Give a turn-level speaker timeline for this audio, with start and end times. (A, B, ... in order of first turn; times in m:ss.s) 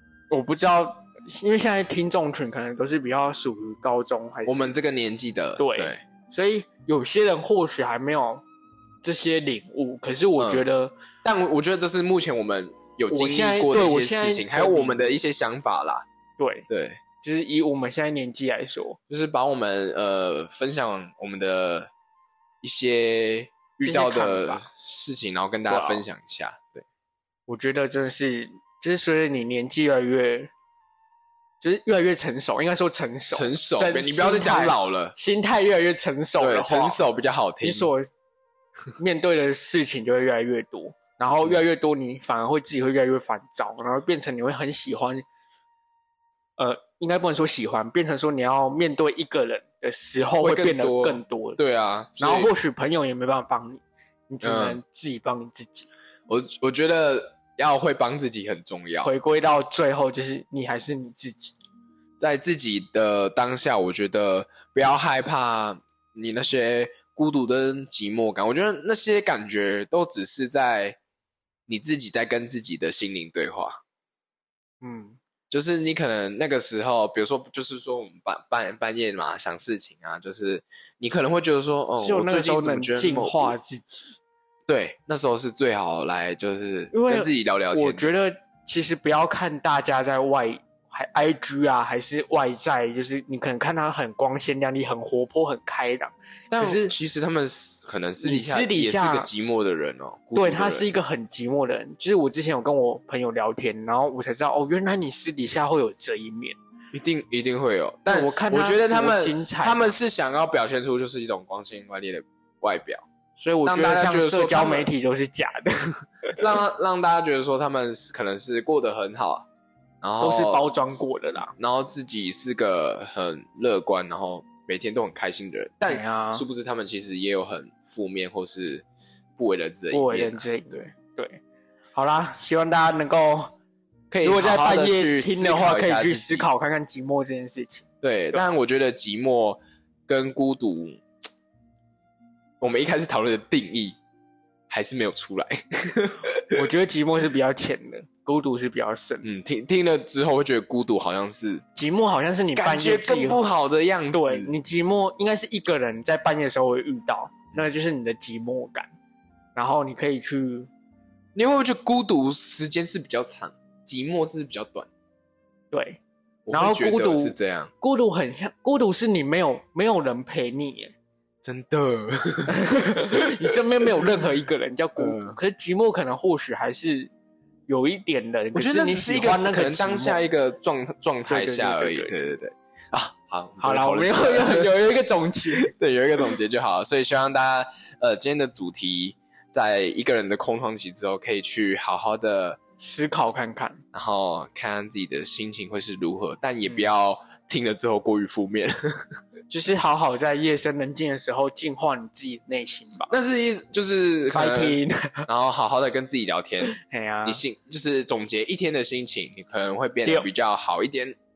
0:00.3-0:04.7 A
0:04.4-0:06.0 B
0:05.6-0:08.4 A
0:09.0-0:10.9 A
0:10.4-0:10.6 B
0:11.2-0:16.0 B
0:13.1-0:15.2 A
0:16.4-0:16.6 A
0:16.7-0:17.0 B
0:17.2-0:19.0 A
0:19.1-0:21.9 B
0:22.6-0:26.8 B
0:23.8-0:24.6 A
0:25.7-0:26.0 A
0:27.5-0:30.5 A
0:31.6-0:37.0 A
0:33.3-0:35.1 B
0:36.4-0:37.9 B
0:37.6-0:38.0 A
0:39.0-0:45.2 A
0:46.6-0:51.6 A
0:50.4-0:52.5 B
0:52.2-0:55.9 A
0:54.4-0:54.8 B
0:56.3-0:59.1 B
0:59.0-1:01.5 A
1:02.2-1:11.0 B
1:11.7-1:13.8 B
1:14.8-1:15.2 A
1:15.5-1:23.6 B
1:22.0-1:24.2 A
1:24.7-1:28.1 B
1:26.9-1:36.9 A
1:36.5-1:40.9 B
1:38.2-1:39.3 A
1:40.3-1:46.6 A
1:46.9-1:53.0 B
1:48.1-1:49.9 A
1:53.4-1:56.4 A
1:53.6-1:54.9 B
1:56.4-1:59.4 B
2:00.0-2:00.7 B
2:00.2-2:01.5 A
2:01.5-2:08.8 B
2:05.9-2:06.4 A
2:09.4-2:10.9 B
2:09.9-2:11.4 A
2:11.9-2:13.5 A
2:14.1-2:16.5 B
2:14.2-2:18.4 A
2:18.0-2:21.0 B
2:22.6-2:24.0 B
2:24.7-2:26.6 B
2:26.5-2:29.2 A
2:29.2-2:31.6 B
2:31.8-2:33.4 A
2:32.5-2:34.5 B
2:34.1-2:38.9 A
2:39.5-2:40.7 A
2:41.3-2:44.9 B
2:45.7-2:46.0 A
2:46.4-2:47.7 B
2:46.5-2:50.9 A
2:51.4-2:52.6 B
2:52.5-2:57.1 A
2:53.1-2:53.6 B
2:55.0-2:55.4 B
2:57.7-3:00.2 A
2:58.5-3:04.7 B
3:01.3-3:02.1 A
3:03.6-3:05.7 A
3:05.6-3:12.6 B
3:12.8-3:13.8 A
3:13.9-3:19.1 B
3:19.5-3:23.1 A
3:23.1-3:31.2 B
3:24.3-3:25.3 A
3:26.6-3:27.4 A